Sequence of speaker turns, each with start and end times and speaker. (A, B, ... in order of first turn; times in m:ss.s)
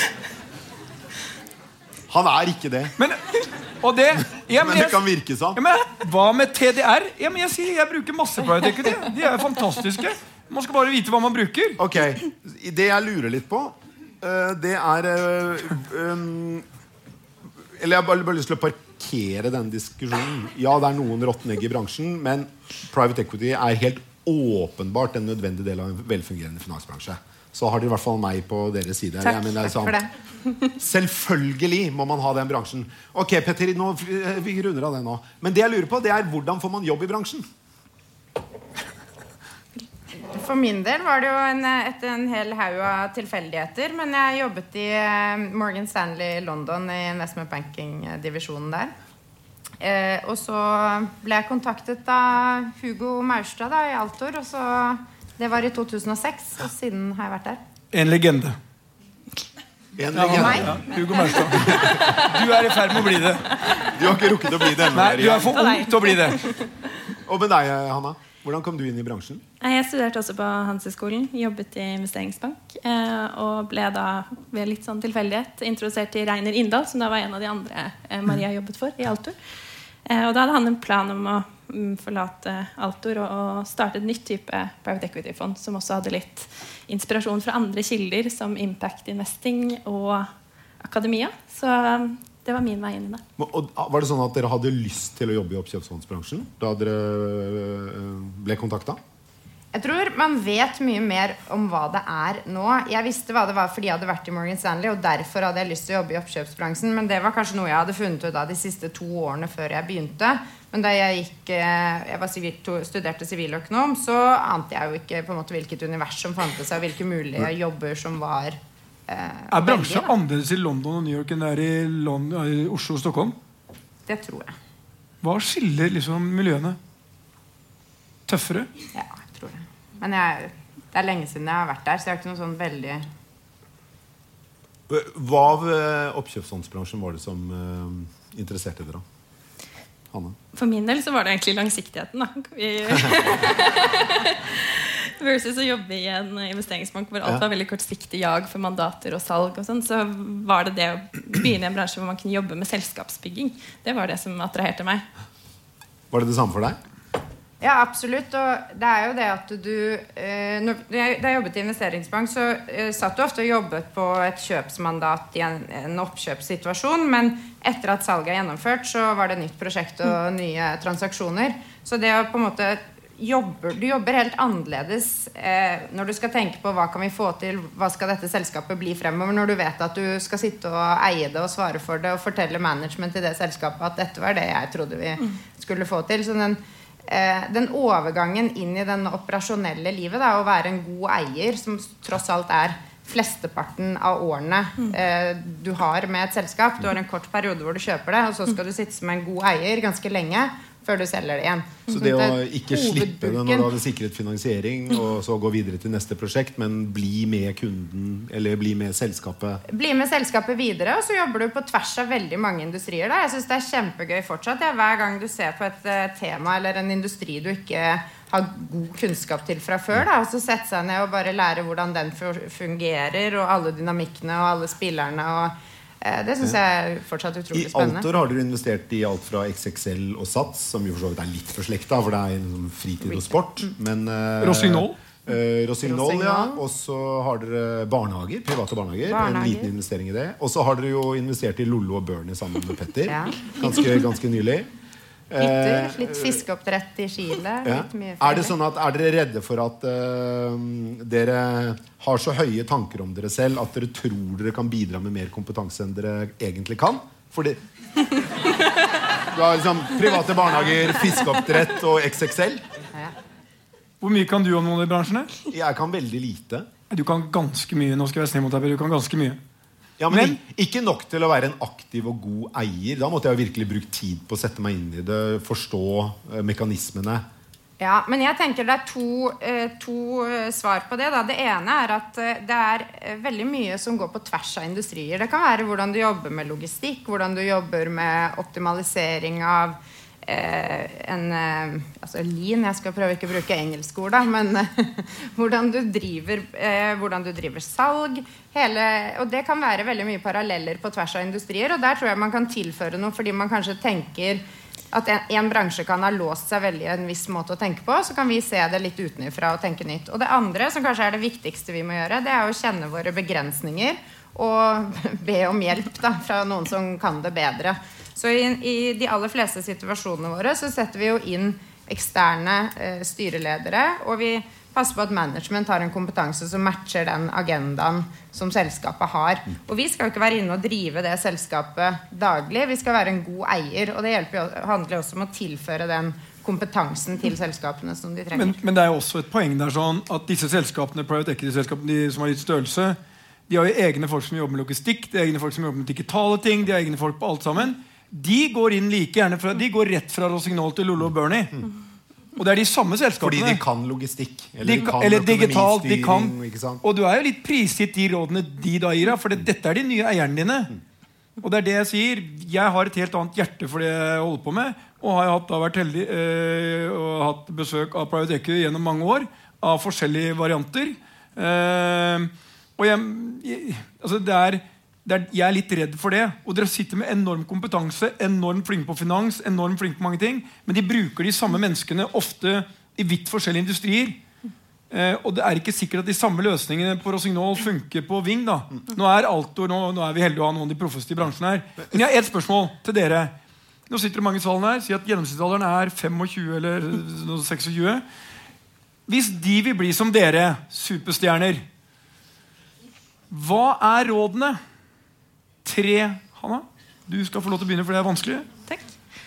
0:02.1-0:02.9 A
0:03.0-0:11.8 B
0:04.6-0:05.6 A
0:11.8-0:16.6 A
0:17.8-0:30.0 A
0:29.2-0:30.7 C
0:30.8-0:37.5 A
0:40.3-0:48.9 C
0:49.8-0:57.6 C
0:57.9-0:58.6 B
1:00.0-1:00.8 A
1:00.1-1:03.6 B
1:00.3-1:01.2 C
1:01.5-1:02.4 A
1:03.7-1:05.7 A
1:04.8-1:06.5 B
1:05.6-1:06.2 D
1:07.3-1:09.4 A
1:09.6-1:19.4 D
1:20.1-1:33.2 D
1:33.4-1:39.0 A
1:39.7-2:00.1 C
1:59.5-2:03.4 B
2:04.1-2:04.6 C
2:05.2-2:06.8 B
2:08.3-2:08.7 B
2:08.9-2:13.1 C
2:14.9-2:19.0 A
2:20.5-2:35.0 D
2:36.1-2:36.8 A
2:37.6-3:23.7 C
3:21.9-3:29.6 A
3:29.7-3:48.1 C
3:47.5-4:04.7 A
3:53.1-3:53.7 C
3:54.4-3:55.0 B
3:55.8-3:56.6 C
3:59.1-3:59.7 C
4:03.1-4:03.6 C
4:05.3-4:06.4 A
4:05.4-4:08.5 C
4:07.6-4:17.6 A
4:19.3-4:22.6 A
4:24.0-4:25.3 B
4:25.5-4:26.7 A
4:26.9-4:29.4 B
4:30.0-4:37.2 A
4:30.1-4:30.4 B
4:37.8-5:38.6 C
5:38.3-5:51.6 B
5:52.4-5:53.6 B
5:53.2-5:56.8 A
5:54.6-6:00.7 B
6:01.4-6:24.2 B
6:24.9-6:33.3 B
6:33.9-6:38.0 B
6:39.1-6:41.6 B
6:43.3-6:44.6 B
6:45.6-6:48.5 B
6:48.7-6:49.0 D